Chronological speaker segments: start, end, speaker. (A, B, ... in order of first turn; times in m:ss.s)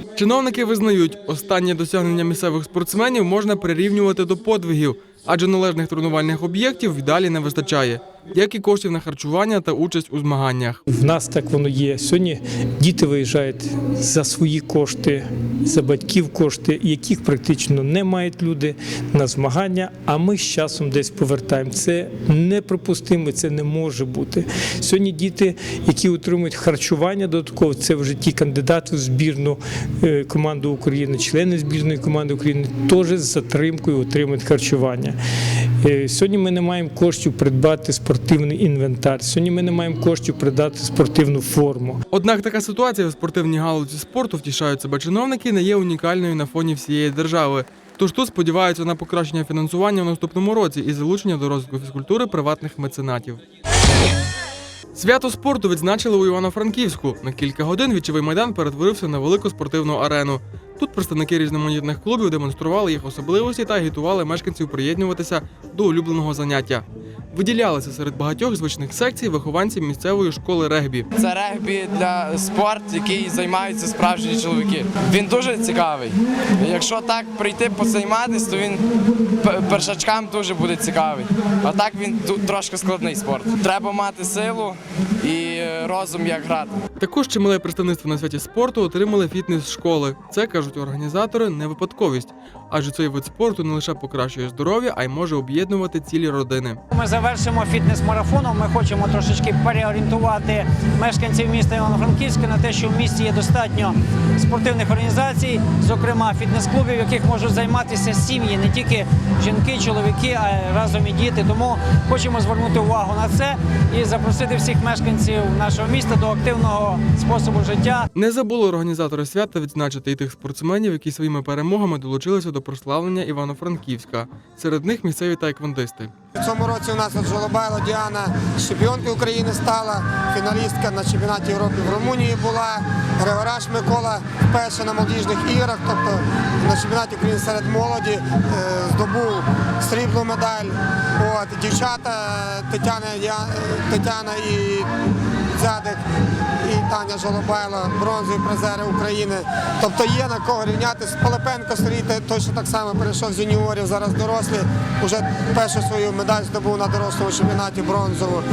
0:00.2-0:10.8 A
0:10.9-0:35.2 B
0:35.8-0:42.0 B
0:42.1-0:53.4 A
0:55.0-1:11.1 A
1:11.2-1:18.8 C
1:19.5-1:26.7 C
1:27.0-1:36.8 A
1:36.9-1:58.1 D
1:58.2-2:06.1 A
2:06.4-2:24.9 E
2:25.6-2:26.0 E
2:26.6-2:38.4 E